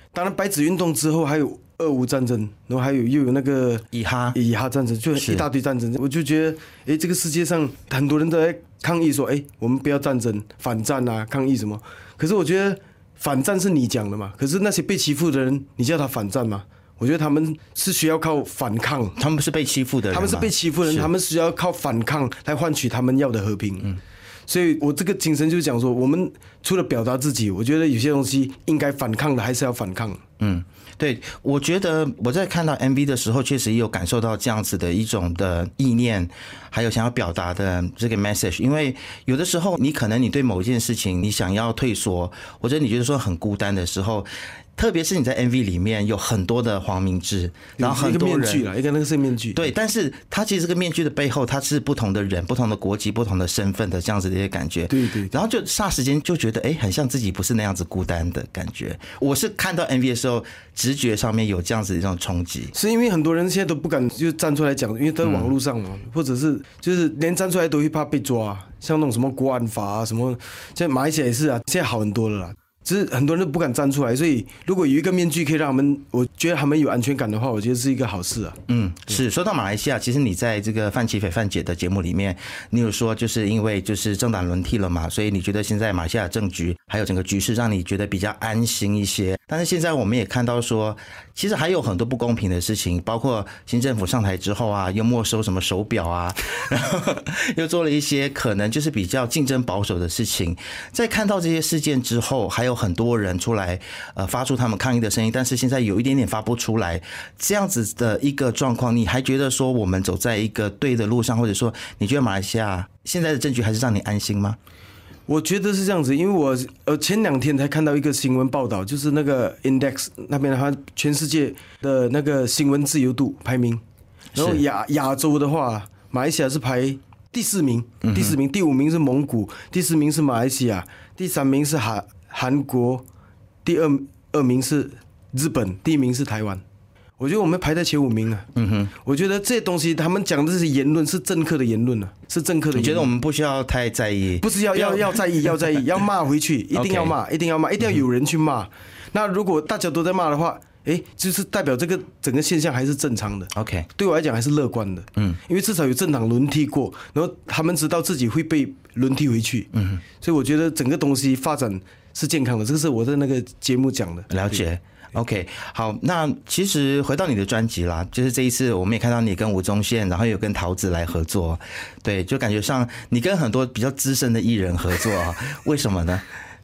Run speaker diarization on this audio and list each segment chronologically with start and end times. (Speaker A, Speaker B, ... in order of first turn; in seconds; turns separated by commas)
Speaker A: 0.1-19.2, Speaker B: 3.9-4.4, Speaker B: 5.2-5.5, Speaker B: 19.2-21.1, Speaker A: 20.1-24.0, Speaker A: 24.5-30.2, Speaker B: 30.4-48.6, Speaker A: 47.8-49.7, Speaker B: 49.5-62.7, Speaker A: 54.9-55.3, Speaker A: 62.7-78.6, Speaker B: 65.2-65.5, Speaker B: 78.7-114.6, Speaker A: 115.3-123.8, Speaker A: 124.3-133.1, Speaker B: 124.4-124.6, Speaker B: 128.0-128.3, Speaker A: 133.7-136.6, Speaker A: 137.2-143.1, Speaker B: 138.6-138.9, Speaker B: 142.7-145.8, Speaker A: 144.4-159.7, Speaker B: 146.7-147.2, Speaker B: 153.5-153.9, Speaker B: 159.7-160.0, Speaker A: 160.2-164.6, Speaker B: 164.3-176.2